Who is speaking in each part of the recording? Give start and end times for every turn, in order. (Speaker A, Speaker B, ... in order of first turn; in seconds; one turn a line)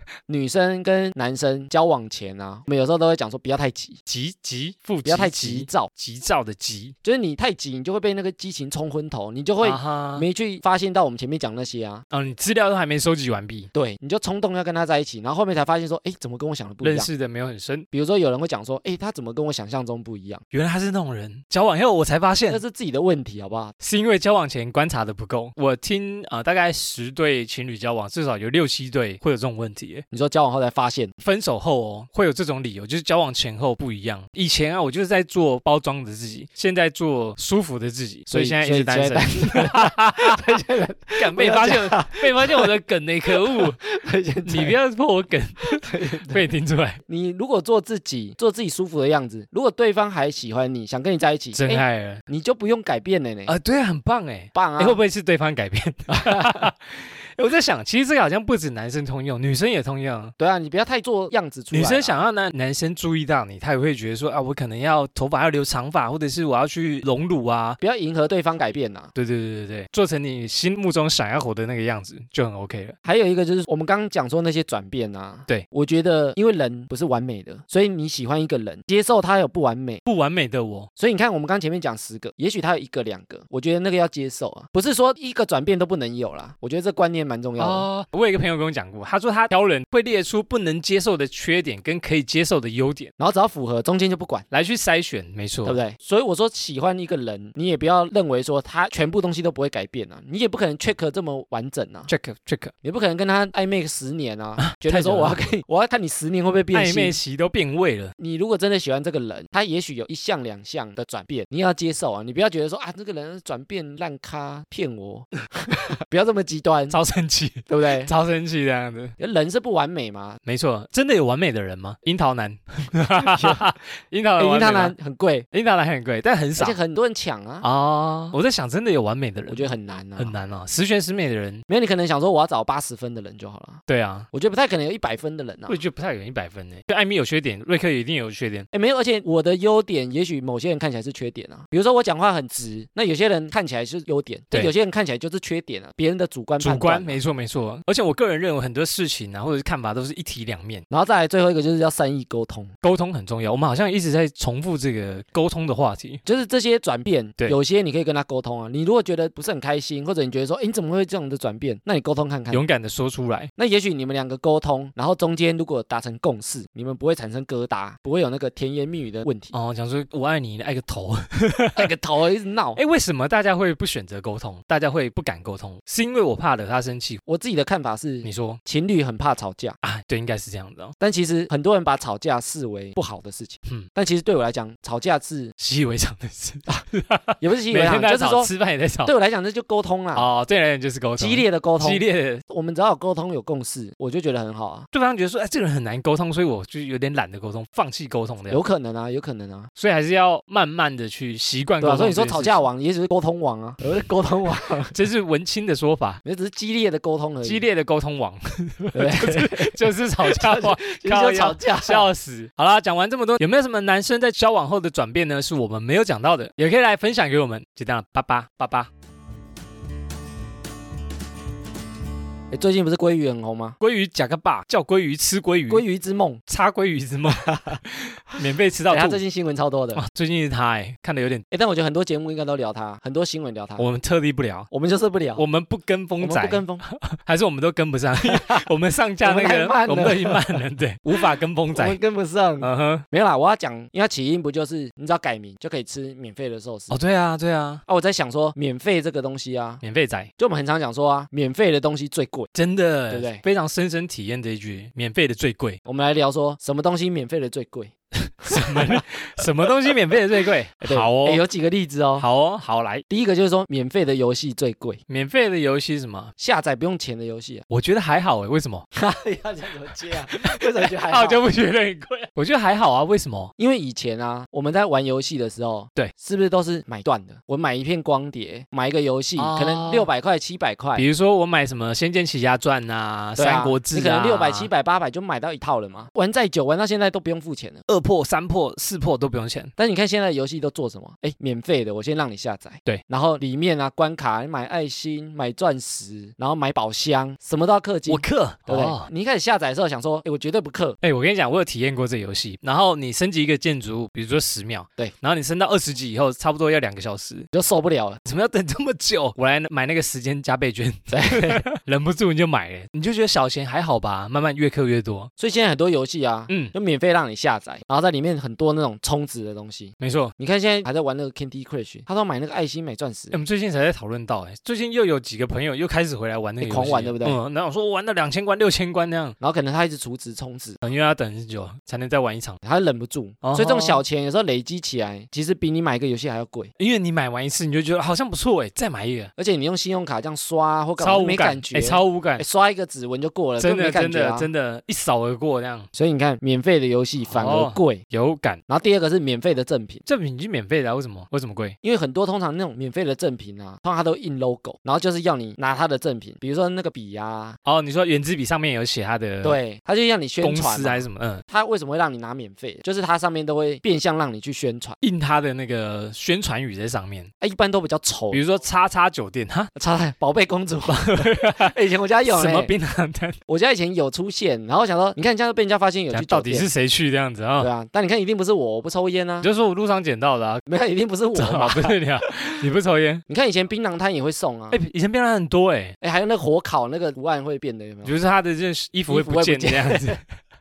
Speaker A: 0.3-4.0
Speaker B: 4.1-7.0
Speaker A: 5.0-5.9
Speaker A: 7.0-12.1
Speaker B: 9.6-10.3
Speaker B: 12.1-13.7
Speaker A: 13.7-17.1
Speaker B: 16.8-17.9
Speaker A: 17.9-20.4
Speaker B: 20.5-22.6
Speaker A: 22.5-23.8
Speaker B: 23.8-30.0
Speaker A: 30.1-31.1
Speaker B: 31.2-40.5
Speaker A: 38.3-42.7
Speaker B: 41.2-43.8
Speaker A: 43.3-44.8
Speaker B: 44.5-47.0
Speaker A: 45.8-46.4
Speaker A: 47.1-53.5
Speaker B: 51.5-52.2
Speaker B: 53.5-60.3
Speaker A: 54.5-55.0
Speaker A: 56.2-56.7
Speaker A: 60.4-62.2
Speaker B: 61.7-67.8
Speaker A: 67.8-69.1
Speaker B: 69.2-73.0
Speaker A: 73.0-80.0
Speaker B: 80.0-80.9
Speaker A: 81.0-87.9
Speaker B: 87.6-93.1
Speaker A: 93.2-94.5
Speaker B: 94.5-95.8
Speaker A: 95.7-102.1
Speaker B: 102.1-102.7
Speaker A: 102.8-107.2
Speaker B: 104.6-105.4
Speaker B: 106.7-108.1
Speaker A: 108.2-117.0
Speaker B: 116.9-119.1
Speaker A: 117.7-118.1
Speaker A: 119.2-120.4
Speaker B: 120.5-125.0
Speaker A: 123.2-123.6
Speaker A: 124.4-125.5
Speaker B: 125.5-126.8
Speaker A: 126.6-127.7
Speaker B: 127.6-131.6
Speaker A: 129.5-130.4
Speaker A: 131.7-133.8
Speaker B: 133.9-134.3
Speaker A: 134.3-135.8
Speaker B: 135.7-138.7
Speaker A: 138.7-147.2
Speaker B: 146.6-150.8
Speaker A: 150.9-152.7
Speaker B: 152.8-156.2
Speaker A: 156.2-162.6
Speaker B: 162.5-163.5
Speaker A: 163.6-169.5
Speaker B: 169.5-171.9
Speaker A: 171.8-172.8
Speaker B: 172.8-177.2
Speaker A: 177.3-179.8
Speaker B: 178.2-178.6
Speaker B: 179.8-180.9
Speaker A: 181.0-185.5
Speaker B: 185.6-189.1
Speaker A: 187.4-188.5
Speaker A: 189.0-190.3
Speaker B: 190.2-192.4
Speaker A: 191.2-194.9
Speaker B: 194.9-198.6
Speaker A: 198.5-199.7
Speaker B: 199.8-202.6
Speaker A: 201.8-204.9
Speaker B: 204.9-206.2
Speaker A: 206.2-207.7
Speaker B: 207.4-218.9
Speaker A: 208.9-212.1
Speaker A: 222.5-223.8
Speaker B: 223.8-225.8
Speaker A: 225.7-226.4
Speaker B: 226.5-229.2
Speaker A: 227.3-227.8
Speaker A: 228.9-230.0
Speaker B: 229.9-231.4
Speaker A: 231.5-233.9
Speaker B: 233.8-234.7
Speaker A: 234.7-235.4
Speaker B: 235.4-242.0
Speaker A: 236.2-236.8
Speaker A: 238.2-238.7
Speaker A: 239.2-240.6
Speaker A: 241.7-246.9
Speaker B: 242.6-243.1
Speaker B: 246.9-247.8
Speaker A: 247.9-249.8
Speaker B: 249.8-250.3
Speaker A: 250.4-252.5
Speaker B: 252.5-255.8
Speaker A: 253.1-253.4
Speaker A: 255.9-257.9
Speaker B: 258.4-261.4
Speaker A: 258.4-259.0
Speaker A: 260.8-262.3
Speaker B: 262.2-263.1
Speaker A: 263.1-265.0
Speaker B: 265.1-266.3
Speaker A: 266.4-267.6
Speaker B: 267.7-268.9
Speaker A: 268.9-271.4
Speaker B: 270.3-273.5
Speaker A: 273.6-281.1
Speaker B: 279.4-280.1
Speaker B: 281.0-284.7
Speaker A: 283.4-287.8
Speaker B: 287.9-289.7
Speaker A: 289.8-301.0
Speaker B: 298.1-299.1
Speaker B: 301.0-307.5
Speaker A: 307.5-308.2
Speaker B: 308.2-315.3
Speaker A: 311.1-311.6
Speaker A: 315.4-323.4
Speaker B: 320.0-320.3
Speaker B: 323.3-329.4
Speaker A: 326.6-327.4
Speaker A: 329.4-330.8
Speaker B: 330.8-332.6
Speaker A: 332.6-336.7
Speaker B: 333.4-334.0
Speaker B: 336.8-339.3
Speaker A: 339.4-344.5
Speaker B: 341.0-342.4
Speaker B: 343.6-345.9
Speaker A: 345.9-348.0
Speaker B: 347.3-348.6
Speaker A: 348.7-350.0
Speaker B: 350.1-351.8
Speaker A: 351.8-357.6
Speaker B: 357.6-359.6
Speaker A: 359.4-365.0
Speaker B: 360.4-361.4
Speaker B: 365.0-367.3
Speaker A: 367.4-368.4
Speaker B: 368.3-369.7
Speaker A: 369.8-372.7
Speaker B: 370.9-373.4
Speaker A: 373.5-376.7
Speaker B: 376.1-377.7
Speaker A: 377.6-379.5
Speaker B: 379.4-380.7
Speaker A: 380.7-382.3
Speaker B: 381.4-383.2
Speaker A: 383.3-384.8
Speaker B: 384.7-385.9
Speaker A: 386.0-388.1
Speaker B: 388.1-390.2
Speaker A: 389.1-390.2